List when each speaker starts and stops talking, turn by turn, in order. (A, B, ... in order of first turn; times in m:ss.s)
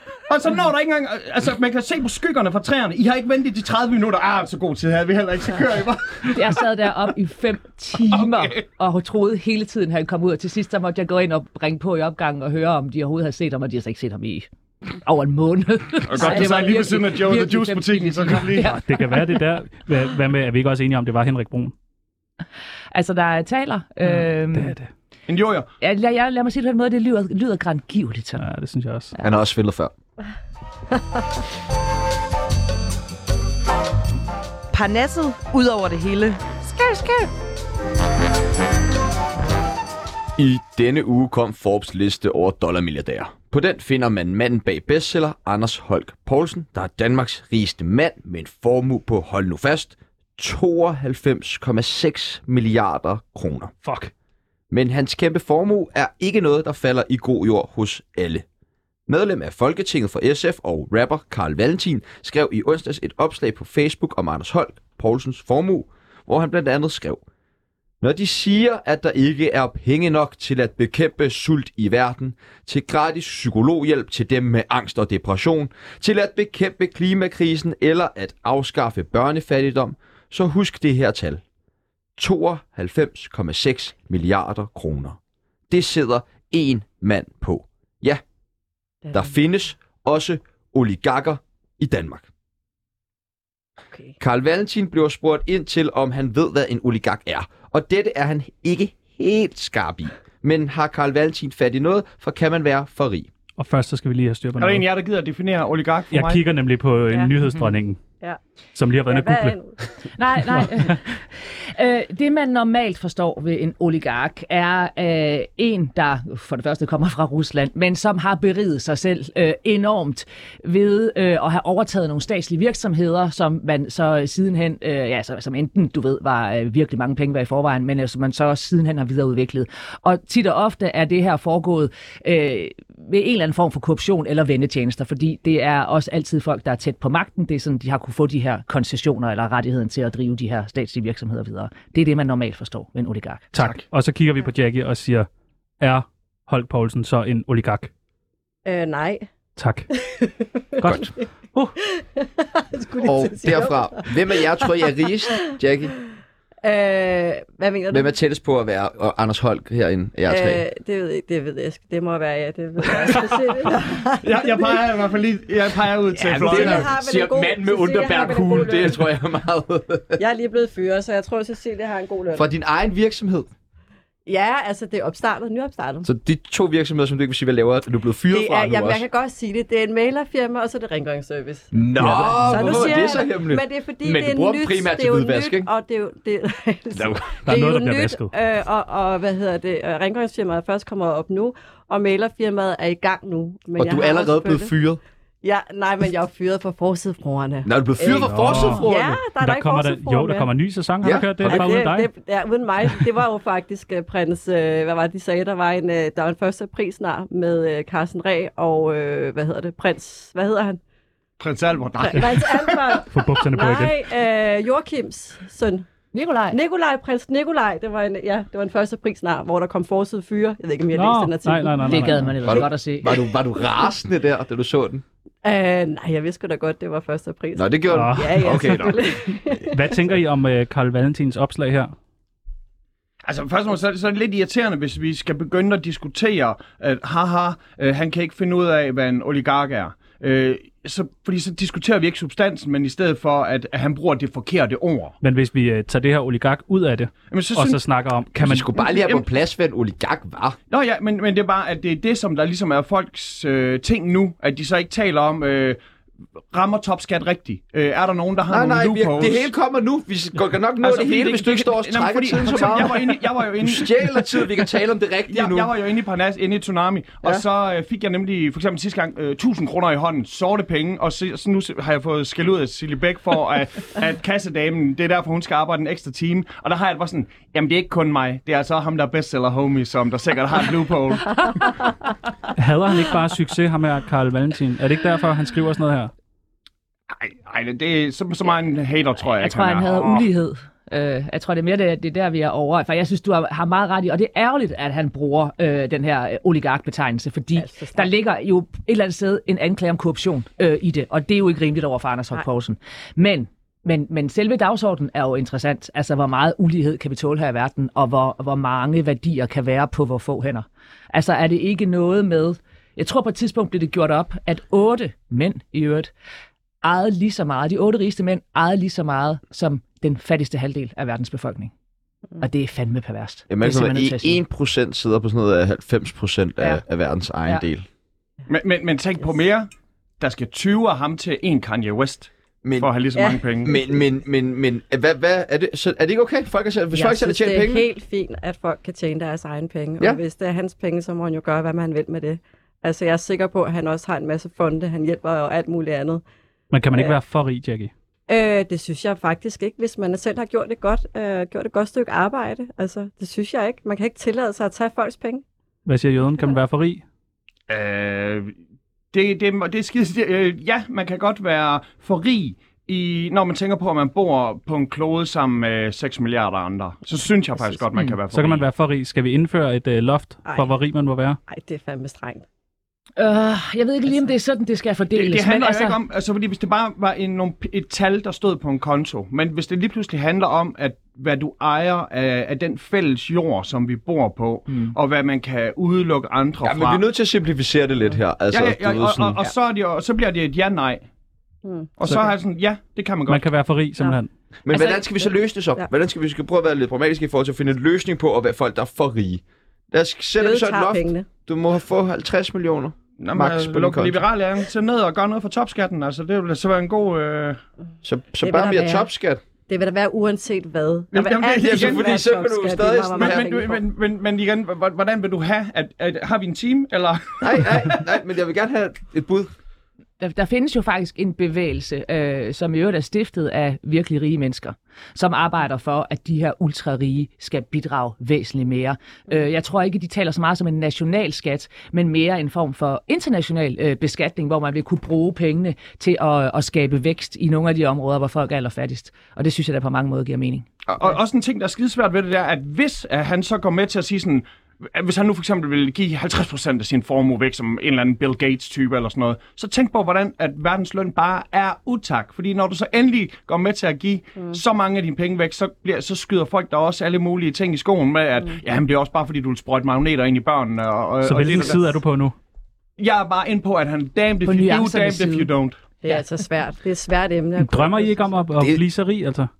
0:00.3-0:06.6 A
0:06.3-0:14.5 B
0:08.1-0:08.6 A
0:15.0-0:19.1 B
0:16.0-0:18.8 A
0:18.7-0:21.7 C
0:22.9-0:24.7 B
0:24.0-0:24.9 C
0:25.3-0:25.7 A
0:25.8-0:28.4 B
0:28.4-0:29.1 C
0:29.2-0:29.9 D
0:34.7-0:37.3 E
0:40.4-0:53.7 D
0:53.8-0:54.1 C
0:54.7-0:58.4 D
0:59.1-1:07.2 D
1:08.0-1:21.4 D
1:22.2-1:25.2 D
1:25.7-1:28.2 D
1:29.0-1:29.4 F
1:29.1-1:32.3 D
1:34.2-1:43.3 D
1:43.6-1:44.9 C
1:44.6-1:46.4 A
1:46.1-1:48.0 C
1:48.7-1:49.6 C
1:49.1-1:49.8 F
1:50.1-2:23.5 B
1:50.6-1:50.9 C
2:23.5-2:25.3 C
2:25.8-2:27.9 C
2:28.6-2:29.3 F
2:29.6-2:29.9 C
2:30.0-2:31.1 F
2:30.8-2:31.7 C
2:32.0-2:34.7 F
2:33.0-2:35.9 D
2:36.6-2:38.1 F
2:37.9-2:40.6 D
2:40.3-2:44.8 F
2:44.2-2:46.9 A
2:46.1-2:50.2 D
2:46.3-2:49.0 F
2:50.2-2:52.4 F
2:52.3-2:53.5 D
2:54.2-2:56.1 F
2:56.0-2:59.0 D
2:58.3-3:14.7 F
3:01.7-3:05.7 D
3:02.0-3:02.8 C
3:06.9-3:07.3 D
3:07.4-3:08.3 C
3:13.8-3:15.0 D
3:15.4-3:20.5 F
3:17.6-3:19.2 D
3:18.3-3:18.9 C
3:19.4-3:22.1 C
3:21.0-3:21.8 D
3:21.4-3:30.8 F
3:31.4-3:33.0 A
3:32.0-3:35.8 F
3:33.0-3:34.0 C
3:36.1-3:36.6 B
3:36.5-3:42.6 F
3:40.9-3:42.3 C
3:41.8-3:43.1 B
3:42.4-3:45.0 D
3:45.4-3:49.7 F
3:47.5-3:49.2 D
3:47.9-3:48.6 C
3:49.7-3:51.9 C
3:53.2-4:05.2 A
4:05.2-4:08.7 C
4:07.3-4:07.8 A
4:08.3-4:10.6 D
4:08.8-4:09.2 A
4:10.7-4:15.8 A
4:16.5-4:19.5 A
4:18.5-4:25.7 D
4:20.8-4:24.4 A
4:25.3-4:41.4 A
4:42.6-4:46.1 C
4:47.1-4:50.3 A
4:49.4-5:16.1 B
4:57.6-4:58.1 F
5:16.8-5:21.7 B
5:22.4-5:24.4 B
5:23.5-5:27.8 D
5:28.5-5:29.7 A
5:30.2-5:33.8 A
5:32.6-5:32.9 D
5:33.6-5:37.9 D
5:36.9-5:46.2 F
5:46.7-5:47.9 C
5:48.3-5:55.4 F
5:55.8-5:57.0 C
5:57.7-5:58.5 A
5:59.1-6:08.6 A
6:08.3-6:11.4 C
6:10.4-6:10.8 F
6:11.5-6:12.4 F
6:13.2-6:16.0 B
6:15.1-6:27.0 A
6:26.6-6:29.4 D
6:28.5-6:31.0 A
6:31.6-6:31.9 F
6:32.0-6:33.5 A
6:33.3-6:34.3 C
6:34.6-6:44.2 D
6:34.7-6:35.1 F
6:40.4-6:41.3 F
6:43.2-6:47.6 A
6:48.0-6:49.4 D
6:48.4-6:49.1 F
6:49.7-6:53.8 F
6:51.1-6:52.2 A
6:51.6-6:53.4 D
6:53.1-6:57.9 A
6:57.4-6:59.5 D
7:00.2-7:20.7 B
7:20.9-7:42.0 A
7:41.2-7:42.3 C
7:43.0-7:45.8 A
7:44.4-7:45.5 B
7:46.0-7:48.4 F
7:47.6-7:49.5 C